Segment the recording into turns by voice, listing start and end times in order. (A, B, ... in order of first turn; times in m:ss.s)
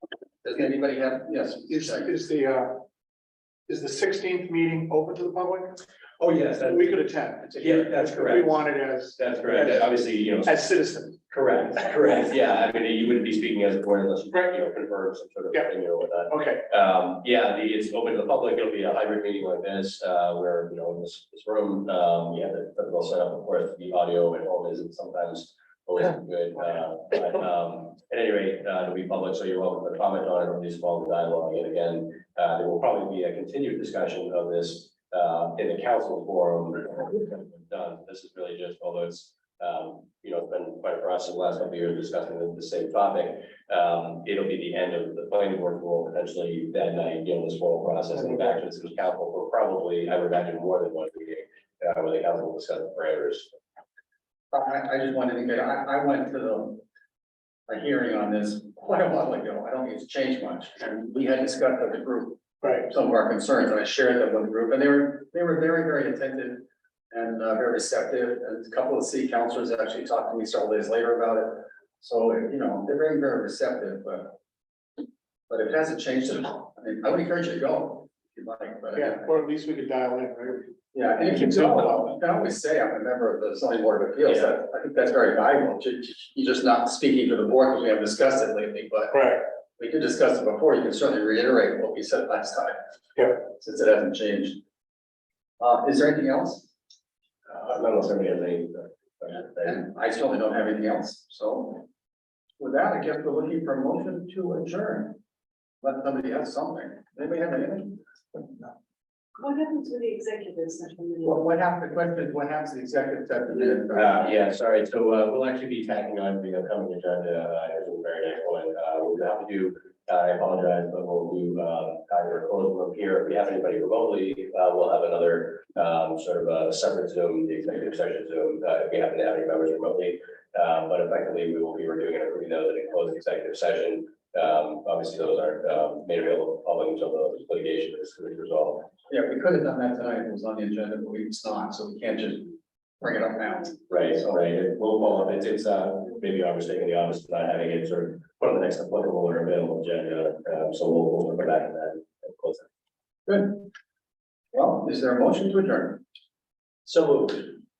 0:00.4-0:02.1 A
0:01.7-0:02.8 B
0:03.7-0:05.8 B
0:06.2-0:07.0 C
0:06.6-0:11.3 B
0:07.6-0:08.6 C
0:09.2-0:10.7 C
0:11.3-0:53.5 C
0:16.3-0:16.6 B
0:54.5-0:56.8 A
0:57.7-1:14.4 A
1:02.6-1:02.9 B
1:15.5-1:19.3 A
1:18.9-1:20.7 B
1:20.9-1:32.8 A
1:21.2-1:22.1 B
1:29.1-1:29.4 B
1:33.3-1:34.6 A
1:35.6-1:36.7 A
1:37.5-1:39.8 C
1:39.6-1:41.8 A
1:42.6-1:45.2 A
1:45.8-1:48.7 A
1:49.4-1:51.5 D
1:51.2-1:54.3 A
1:53.9-2:18.9 C
2:19.1-2:24.4 A
2:23.9-2:32.7 C
2:33.3-2:33.7 A
2:34.5-2:36.0 A
2:36.8-2:37.5 C